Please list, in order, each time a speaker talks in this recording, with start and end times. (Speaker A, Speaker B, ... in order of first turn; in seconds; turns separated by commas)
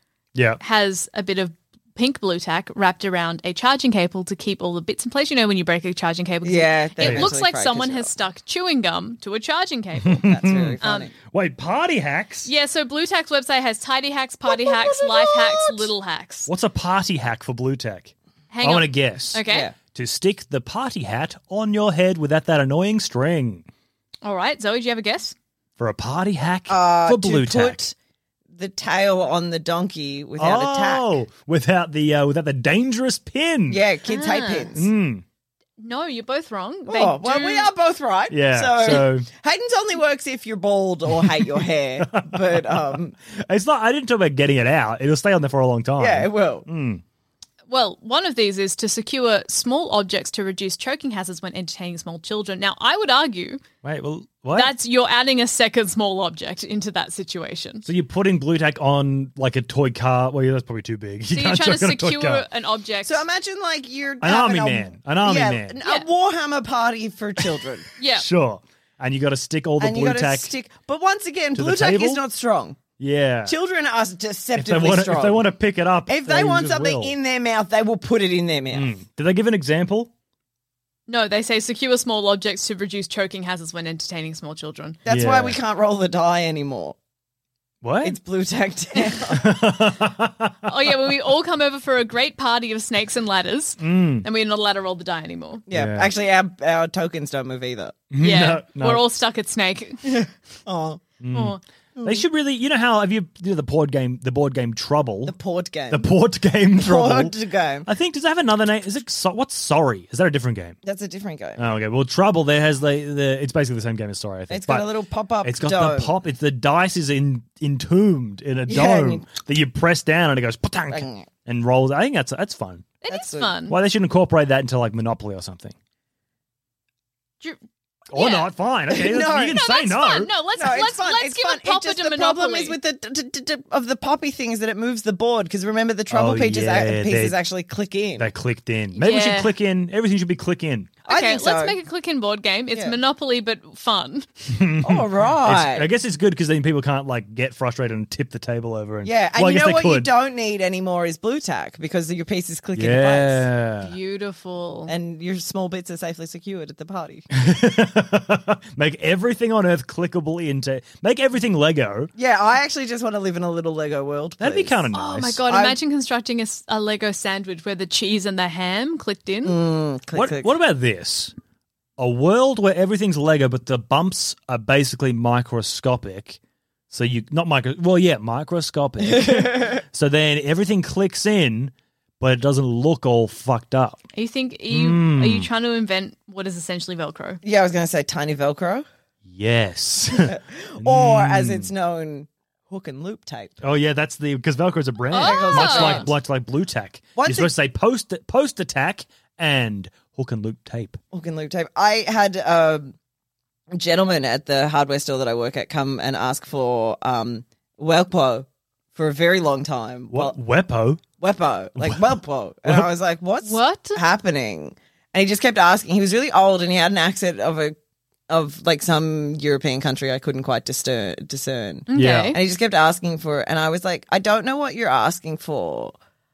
Speaker A: 0.3-0.6, Speaker B: 0.6-11.1, Speaker C: 6.4-8.1, Speaker A: 7.0-7.3, Speaker A: 10.0-12.5, Speaker C: 10.2-11.1, Speaker B: 12.4-16.5, Speaker C: 14.5-15.8, Speaker A: 16.5-23.6, Speaker B: 18.5-19.7, Speaker C: 19.4-19.7, Speaker B: 24.2-25.3, Speaker A: 25.8-27.8, Speaker C: 26.7-27.9, Speaker C: 28.5-31.2, Speaker A: 30.4-33.8, Speaker C: 33.7-34.9, Speaker B: 34.1-34.7, Speaker A: 34.8-35.2, Speaker B: 35.8-37.7, Speaker C: 36.9-43.1, Speaker A: 38.3-39.3, Speaker A: 41.2-47.0, Speaker C: 46.0-46.7, Speaker B: 47.7-53.6, Speaker A: 53.8-54.7, Speaker B: 54.5-57.8, Speaker A: 57.8-62.5, Speaker B: 61.3-63.2, Speaker C: 63.0-67.9, Speaker A: 64.2-65.8, Speaker B: 68.0-68.3, Speaker A: 68.1-70.5, Speaker C: 69.8-72.8, Speaker A: 71.5-72.2, Speaker A: 73.0-73.5, Speaker C: 73.5-75.5, Speaker A: 74.5-77.1, Speaker C: 76.1-79.0, Speaker A: 78.7-80.1, Speaker B: 81.1-85.0, Speaker C: 85.0-87.0, Speaker A: 85.1-85.6, Speaker A: 87.8-88.2, Speaker C: 88.0-89.6, Speaker A: 89.3-90.5, Speaker B: 90.6-95.6, Speaker A: 93.8-94.2, Speaker C: 95.7-98.0, Speaker A: 95.7-96.1, Speaker A: 98.1-99.1, Speaker B: 98.2-100.1, Speaker C: 100.0-101.0, Speaker A: 101.2-105.3, Speaker B: 101.3-101.6, Speaker C: 102.0-102.2, Speaker C: 105.2-106.1, Speaker A: 105.9-110.8, Speaker C: 106.8-107.9, Speaker C: 110.8-111.6, Speaker A: 111.6-114.9, Speaker C: 114.5-116.1, Speaker A: 115.4-122.9, Speaker C: 118.7-119.2, Speaker C: 120.9-121.3, Speaker B: 123.0-123.8, Speaker C: 123.1-123.5, Speaker A: 123.7-125.7, Speaker A: 128.1-130.3, Speaker B: 128.1-128.5, Speaker C: 128.9-129.7, Speaker B: 129.5-132.8, Speaker C: 130.5-138.3, Speaker A: 136.1-137.4, Speaker A: 138.2-141.0, Speaker B: 138.9-139.5, Speaker C: 141.1-141.8, Speaker B: 141.1-144.3, Speaker C: 142.7-143.0, Speaker A: 144.5-150.1, Speaker C: 144.8-145.9, Speaker C: 149.0-153.5, Speaker A: 152.8-153.9, Speaker B: 153.8-154.9, Speaker C: 154.9-157.3, Speaker A: 157.3-162.1, Speaker C: 162.2-164.8, Speaker A: 164.4-165.4, Speaker B: 164.9-169.6, Speaker C: 165.5-165.8, Speaker C: 169.4-170.5, Speaker A: 170.1-171.3, Speaker A: 172.0-176.4, Speaker A: 176.9-184.1, Speaker C: 179.0-179.8, Speaker B: 184.2-187.4, Speaker A: 184.7-185.5, Speaker C: 187.4-188.9, Speaker A: 189.2-191.7, Speaker C: 190.2-193.6, Speaker A: 193.6-201.0, Speaker B: 195.1-196.1, Speaker C: 195.1-196.2, Speaker C: 197.2-197.5, Speaker C: 201.1-202.9, Speaker C: 203.7-210.4, Speaker A: 210.1-211.0, Speaker C: 211.2-217.8, Speaker A: 211.8-212.9, Speaker B: 213.4-214.0, Speaker C: 218.3-225.9, Speaker B: 221.9-222.4, Speaker A: 221.9-222.3